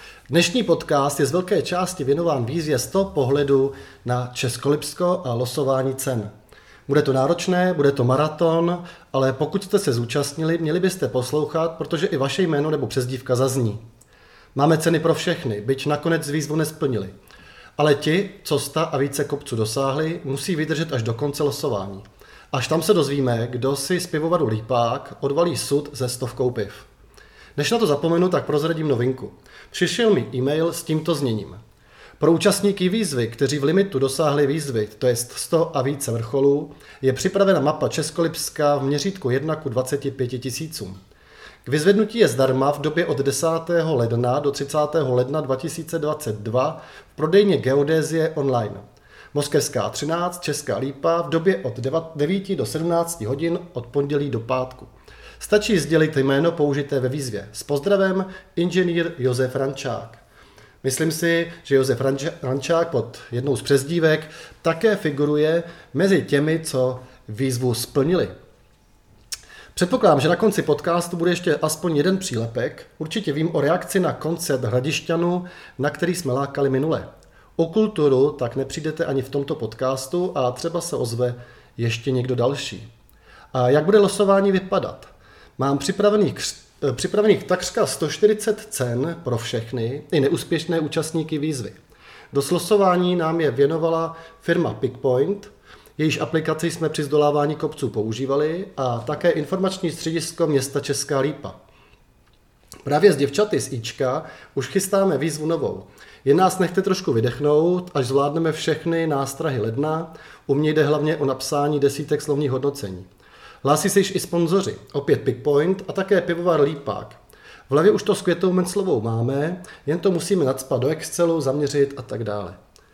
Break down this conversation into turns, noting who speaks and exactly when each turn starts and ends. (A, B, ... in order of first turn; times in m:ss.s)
0:00.3-0:06.3 A
0:06.9-0:13.8 A
0:14.5-0:17.1 A
0:17.8-0:26.9 A
0:27.6-0:31.6 A
0:32.2-0:41.0 A
0:41.6-1:00.2 A
1:00.8-1:08.3 A
1:09.8-1:22.9 A
1:23.5-1:31.8 A
1:32.3-1:41.6 A
1:42.8-1:53.1 A
1:53.6-1:57.2 A
1:57.7-2:02.6 A